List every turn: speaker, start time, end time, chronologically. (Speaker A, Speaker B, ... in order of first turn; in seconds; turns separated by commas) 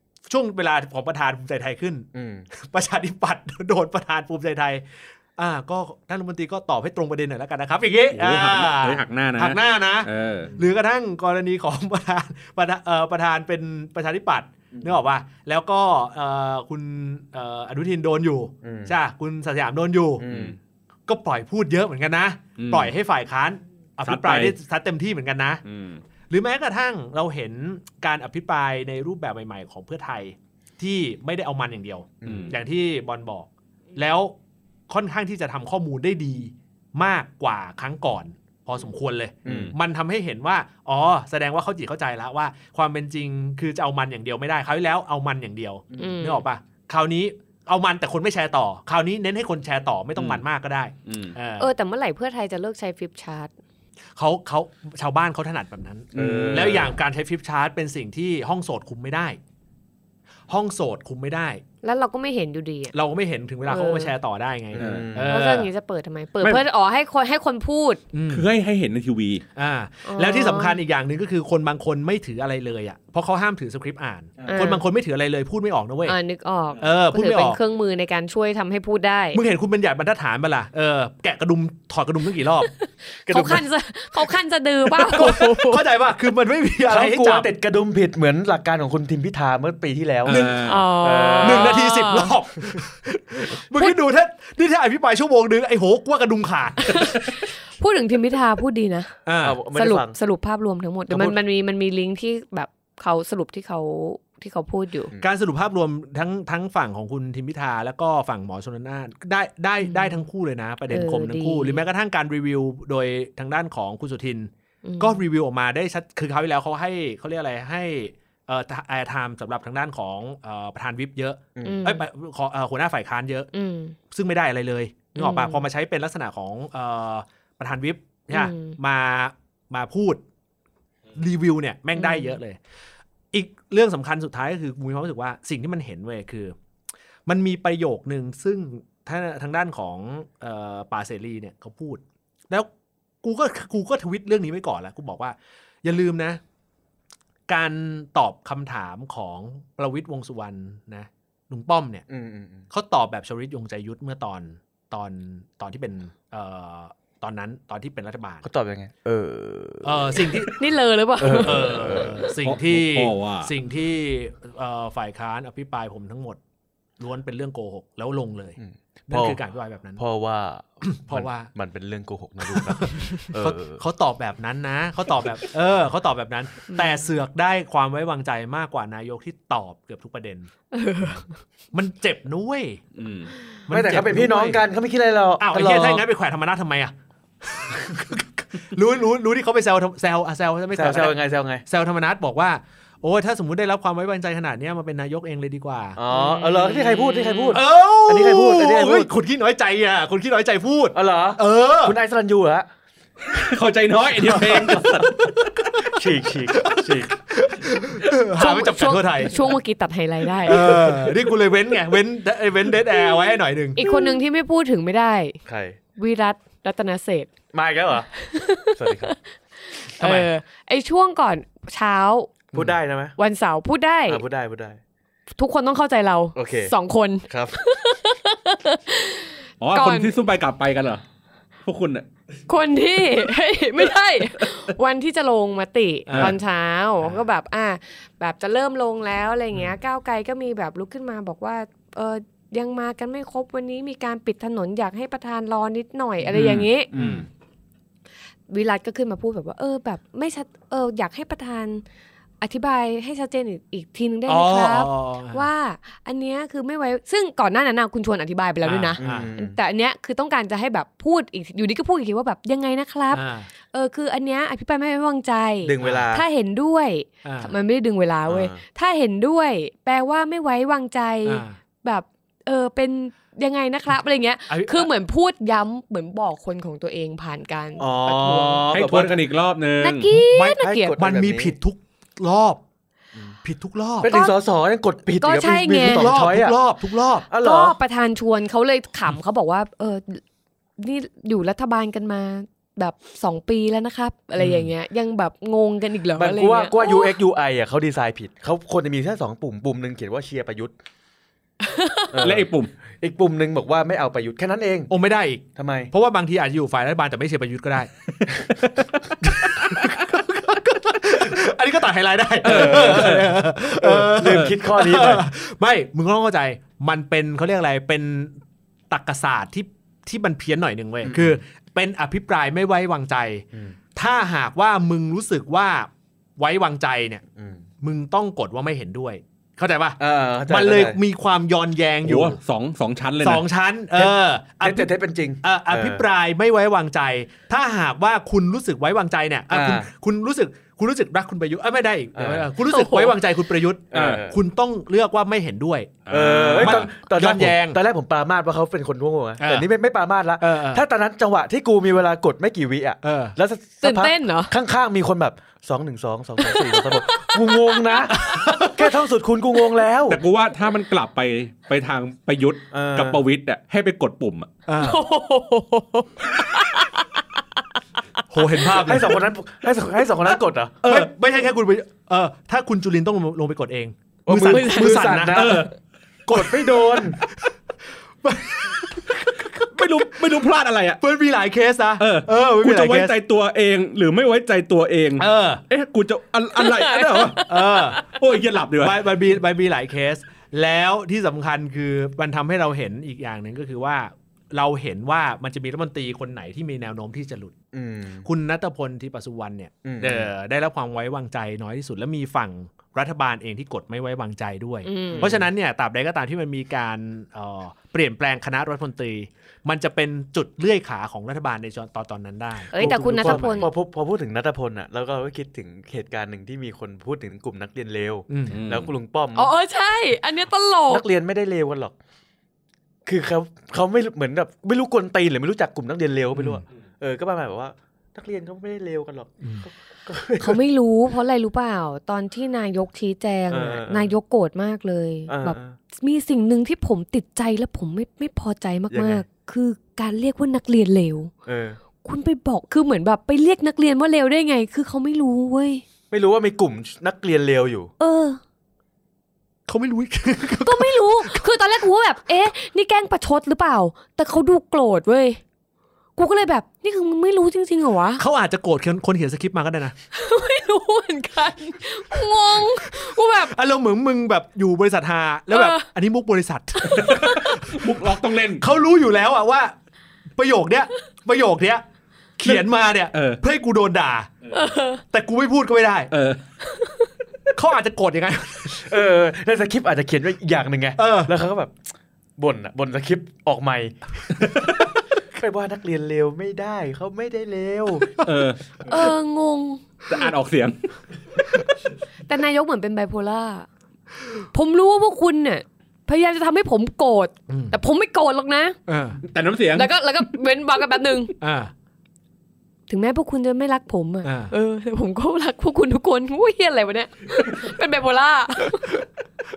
Speaker A: 0.3-4.8, Speaker B: 2.1-2.5, Speaker A: 5.4-20.2, Speaker C: 8.1-10.5, Speaker B: 18.6-18.9, Speaker B: 20.2-20.6, Speaker C: 20.2-20.6, Speaker A: 21.1-25.6, Speaker C: 22.6-22.9, Speaker C: 24.0-24.6, Speaker C: 25.6-26.0, Speaker A: 26.3-34.3, Speaker B: 32.2-32.5, Speaker C: 32.2-32.5, Speaker A: 34.9-51.7, Speaker B: 39.4-39.7, Speaker C: 39.5-39.7, Speaker B: 45.9-46.1, Speaker D: 46.0-46.4, Speaker C: 50.1-50.4, Speaker C: 51.0-51.4, Speaker D: 51.6-53.5, Speaker A: 54.1-59.4, Speaker C: 56.1-56.9, Speaker B: 56.1-56.9, Speaker A: 60.5-61.6, Speaker D: 61.8-62.9, Speaker A: 62.9-65.7, Speaker D: 63.6-64.1, Speaker B: 64.7-65.4, Speaker C: 64.8-65.1, Speaker D: 65.2-68.0, Speaker A: 68.1-68.5, Speaker C: 68.3-69.4, Speaker A: 69.5-76.2, Speaker D: 70.0-70.8, Speaker B: 74.4-74.7, Speaker D: 74.5-74.8, Speaker D: 76.0-79.4, Speaker A: 76.8-77.6, Speaker A: 79.3-82.7, Speaker D: 82.7-85.8, Speaker B: 83.2-83.7, Speaker A: 85.0-87.5, Speaker B: 86.9-91.8, Speaker C: 90.2-90.8, Speaker A: 90.3-90.6, Speaker D: 90.6-92.3, Speaker A: 91.4-97.2, Speaker D: 96.8-99.1, Speaker A: 99.2-99.6, Speaker B: 99.4-100.2, Speaker D: 99.7-105.1, Speaker B: 101.1-101.4, Speaker A: 105.2-123.5, Speaker D: 109.8-110.2, Speaker D: 110.9-111.8, Speaker D: 114.8-115.2, Speaker D: 121.6-122.0, Speaker D: 123.5-124.0, Speaker A: 124.1-130.2, Speaker D: 125.1-125.6, Speaker D: 128.3-128.8, Speaker A: 131.1-132.6, Speaker D: 131.9-132.4, Speaker A: 133.3-136.5, Speaker A: 137.3-142.7, Speaker A: 143.2-146.4, Speaker A: 147.5-152.0, Speaker B: 152.1-152.7, Speaker A: 152.7-158.4, Speaker B: 158.4-160.5, Speaker A: 159.8-160.6, Speaker D: 160.6-161.8, Speaker B: 161.2-162.3, Speaker A: 161.2-166.4, Speaker C: 162.4-163.5, Speaker A: 167.0-170.0, Speaker B: 168.6-169.4, Speaker B: 170.0-173.8, Speaker A: 170.8-171.5, Speaker A: 172.5-180.5, Speaker D: 176.7-177.1, Speaker D: 180.7-181.3, Speaker A: 181.7-182.8, Speaker C: 182.9-183.3, Speaker A: 183.7-184.6, Speaker B: 183.7-186.0, Speaker A: 185.4-186.9, Speaker A: 187.4-196.0, Speaker B: 190.7-191.6, Speaker B: 195.9-199.1, Speaker D: 196.1-197.6, Speaker A: 197.5-202.0, Speaker B: 200.9-202.7, Speaker C: 203.3-205.9, Speaker B: 204.2-205.1, Speaker A: 204.3-204.9, Speaker B: 205.8-207.2, Speaker A: 206.5-209.4, Speaker D: 208.3-210.8, Speaker A: 210.4-213.8, Speaker D: 213.7-215.4, Speaker B: 215.4-215.8, Speaker D: 216.0-217.3, Speaker B: 217.5-218.1, Speaker D: 218.2-222.3, Speaker B: 218.7-219.1, Speaker A: 220.0-220.3, Speaker B: 222.5-223.2, Speaker D: 223.2-224.2, Speaker B: 224.1-224.8, Speaker D: 225.4-230.2, Speaker B: 226.3-226.7, Speaker B: 227.3-227.6, Speaker C: 229.6-231.0, Speaker C: 231.6-232.1, Speaker D: 232.5-246.9, Speaker A: 236.1-236.3, Speaker C: 236.1-236.3, Speaker A: 246.2-247.2, Speaker C: 246.3-246.6, Speaker B: 246.9-247.3, Speaker D: 248.5-251.8, Speaker D: 252.4-278.7, Speaker A: 254.3-255.5, Speaker A: 258.6-259.3, Speaker B: 259.0-259.6, Speaker A: 263.1-263.5, Speaker B: 265.6-266.2, Speaker A: 267.2-267.5, Speaker B: 268.3-268.6, Speaker A: 271.2-271.6, Speaker A: 274.5-274.9, Speaker B: 277.8-279.1, Speaker C: 278.7-280.1, Speaker D: 279.8-281.0, Speaker A: 280.1-282.6, Speaker B: 280.6-281.6, Speaker A: 283.4-284.1, Speaker B: 284.0-286.6, Speaker D: 284.1-284.3, Speaker D: 285.2-286.1, Speaker A: 285.8-287.2, Speaker B: 287.3-287.8, Speaker D: 287.4-290.2, Speaker D: 290.8-297.2, Speaker B: 296.1-300.7, Speaker D: 301.6-302.1, Speaker B: 302.1-302.5, Speaker C: 302.2-302.7, Speaker B: 303.0-304.9, Speaker A: 304.9-318.3, Speaker B: 305.6-305.9, Speaker C: 312.4-313.3, Speaker B: 312.4-315.3, Speaker A: 318.9-323.4, Speaker B: 321.0-321.4, Speaker A: 323.9-327.2, Speaker B: 327.3-327.6, Speaker A: 327.8-332.4, Speaker B: 330.0-331.0, Speaker C: 332.0-333.4, Speaker A: 333.2-334.9, Speaker B: 334.0-336.0, Speaker A: 335.4-347.8, Speaker B: 339.5-339.9, Speaker B: 342.1-342.4, Speaker D: 342.7-343.1, Speaker B: 343.9-344.4, Speaker C: 343.9-344.2, Speaker C: 346.1-346.9, Speaker B: 346.1-360.2, Speaker A: 349.4-349.7, Speaker A: 350.4-350.8, Speaker A: 353.0-353.3, Speaker D: 353.8-354.5, Speaker D: 356.4-358.1, Speaker A: 358.1-358.9, Speaker C: 360.1-364.5, Speaker B: 362.7-363.2, Speaker A: 364.7-365.0, Speaker D: 364.8-367.2, Speaker A: 368.3-369.2, Speaker B: 368.8-370.9, Speaker A: 370.8-375.7, Speaker B: 374.2-375.7, Speaker D: 374.4-375.1, Speaker C: 375.2-375.7, Speaker A: 376.3-377.5, Speaker B: 376.3-377.2, Speaker A: 378.2-380.3, Speaker C: 379.6-381.0, Speaker A: 381.0-383.1, Speaker C: 382.0-387.5, Speaker A: 385.2-385.6, Speaker D: 386.6-388.0, Speaker A: 387.4-388.0, Speaker C: 388.0-389.0, Speaker A: 388.8-397.6, Speaker B: 397.7-398.3, Speaker A: 398.2-413.7, Speaker B: 399.8-400.3, Speaker D: 404.8-405.3, Speaker B: 405.1-405.5, Speaker D: 412.7-413.7, Speaker B: 412.8-419.5, Speaker A: 418.3-418.6, Speaker C: 418.5-418.9, Speaker D: 419.3-421.0, Speaker B: 420.9-421.9, Speaker B: 423.1-430.6, Speaker A: 426.4-426.6, Speaker A: 429.4-429.7, Speaker D: 430.4-441.3, Speaker B: 433.5-434.1, Speaker B: 435.3-435.8, Speaker B: 438.9-439.2, Speaker B: 441.4-441.8, Speaker D: 442.0-445.8, Speaker B: 446.1-447.9, Speaker D: 448.0-448.4, Speaker A: 449.7-451.4, Speaker D: 450.6-455.4, Speaker D: 456.1-458.2, Speaker A: 458.2-459.9, Speaker D: 460.1-463.5, Speaker A: 462.9-469.7, Speaker D: 465.5-465.8, Speaker D: 466.8-467.4, Speaker C: 466.9-468.6, Speaker A: 470.4-471.8, Speaker A: 472.4-474.3, Speaker C: 472.4-473.4, Speaker D: 474.5-475.0, Speaker A: 475.0-476.1, Speaker C: 476.1-476.4, Speaker A: 477.5-478.9, Speaker B: 478.8-481.9, Speaker A: 481.0-481.3, Speaker B: 482.4-483.9, Speaker B: 485.3-488.1, Speaker C: 488.2-489.1, Speaker D: 488.9-490.2, Speaker C: 490.1-490.8, Speaker D: 492.3-493.7, Speaker D: 494.5-498.8, Speaker A: 497.5-497.8, Speaker A: 498.9-499.2, Speaker C: 499.2-499.9, Speaker D: 499.7-501.3, Speaker A: 501.4-501.7, Speaker D: 502.9-509.0, Speaker A: 504.2-504.5